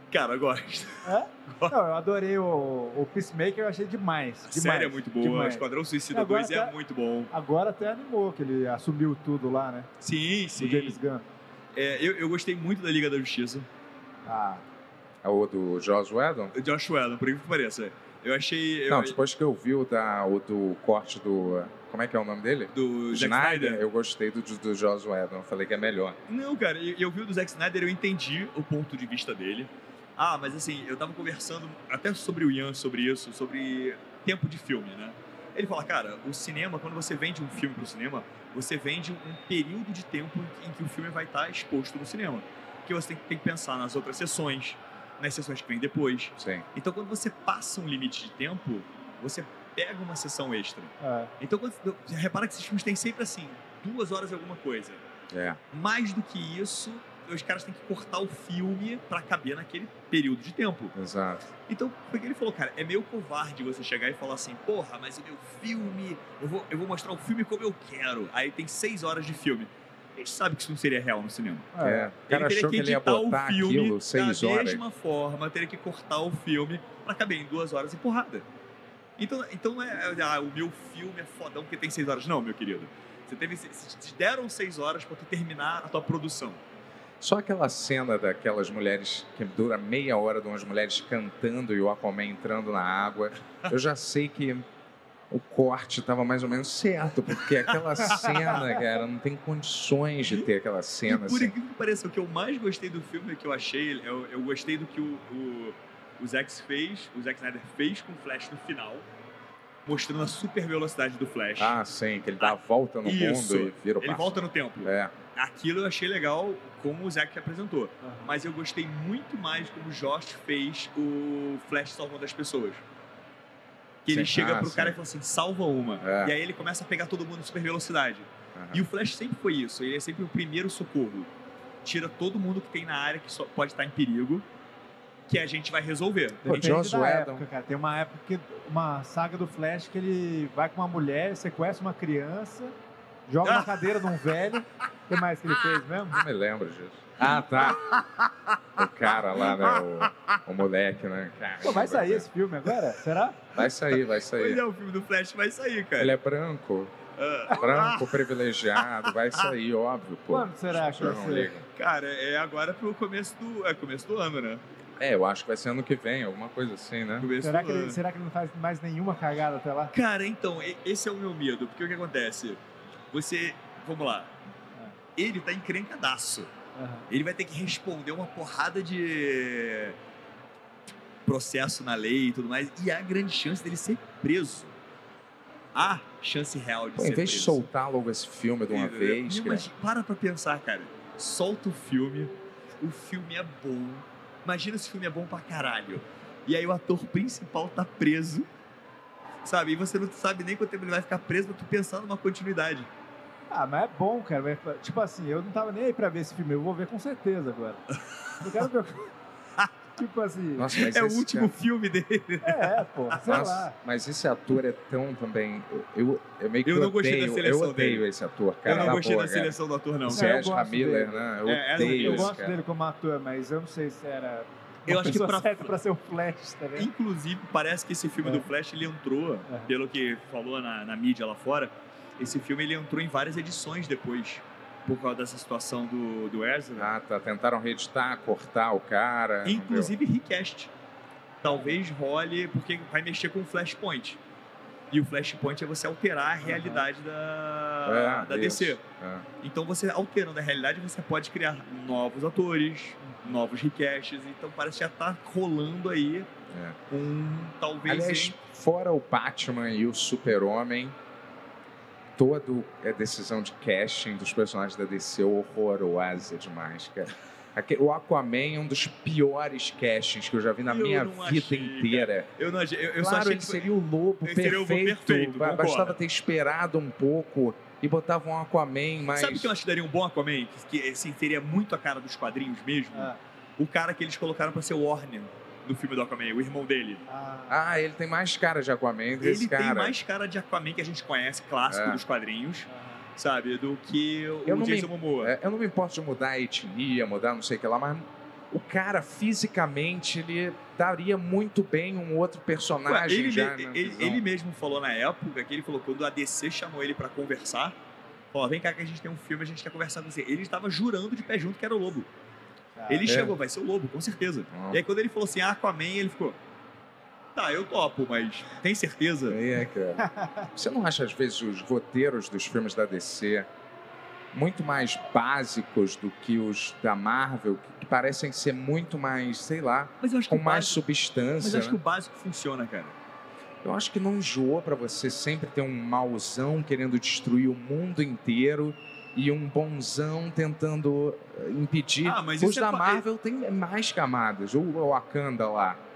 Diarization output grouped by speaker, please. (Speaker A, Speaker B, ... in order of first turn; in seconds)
Speaker A: 0.1-1.7, 4.5-7.3, 10.0-11.0, 11.8-13.7, 16.6-19.2, 22.7-23.8, 26.3-55.0, 55.7-60.9, 61.7-71.7, 72.3-78.5, 79.2-86.6, 98.2-98.6, 101.1-109.1, 109.9-111.8, 112.4-122.8, 124.0-131.3, 131.8-134.4, 135.3-136.7, 143.4-144.0, 147.2-148.6, 149.1-150.4, 154.3-156.2, 157.2-158.2, 158.8-159.5, 161.8-164.6, 167.2-168.0, 169.9-172.6, 173.1-174.3, 175.2-176.5, 177.1-180.0, 181.3-184.7, 185.8-187.7, 188.7-198.5, 199.4-202.9, 210.8-213.4, 216.7-218.0, 218.7-220.3, 221.4-222.3, 224.9-225.7, 226.8-236.9, 239.4-240.7, 241.4-244.2, 244.9-248.8, 249.4-256.3, 256.9-258.4, 270.7-273.7, 274.2-276.0, 279.1-287.1, 289.2-295.3, 302.9-307.8, 308.3-312.1, 312.9-316.4, 317.4-319.4, 330.0-330.8, 331.4-332.9, 342.0-343.1
Speaker B: 1.0-6.8, 7.3-9.9, 10.6-11.3, 14.3-14.6, 51.0-51.3, 71.7-72.1, 118.0-118.3, 136.4-142.8, 143.3-146.2, 151.6-153.4, 160.3-161.5, 167.4-169.9, 176.8-177.1, 203.5-207.8, 208.4-209.1, 210.0-210.7, 212.4-213.8, 218.7-219.0, 220.1-221.2, 221.8-226.9, 246.4-246.9, 282.9-283.2, 287.1-287.6, 292.7-293.0, 312.8-313.2, 320.0-320.5
Speaker C: 15.2-16.5, 18.9-26.2, 46.4-46.6, 55.3-55.6, 61.0-61.5, 71.8-74.8, 87.2-94.7, 95.3-101.5, 111.6-115.1, 124.1-125.0, 126.0-126.3, 128.6-128.9, 136.4-137.4, 146.1-147.9, 148.8-152.3, 153.6-154.6, 156.0-157.0, 157.5-161.7, 165.0-167.3, 187.0-189.7, 210.6-211.5, 213.2-222.6, 236.8-239.9, 247.9-249.3, 256.5-256.8, 257.9-261.0, 262.2-272.3, 273.0-279.5, 287.5-290.0, 291.7-292.0, 294.5-304.2, 313.1-313.3, 314.5-314.8, 319.3-323.5, 324.3-331.8, 333.6-345.8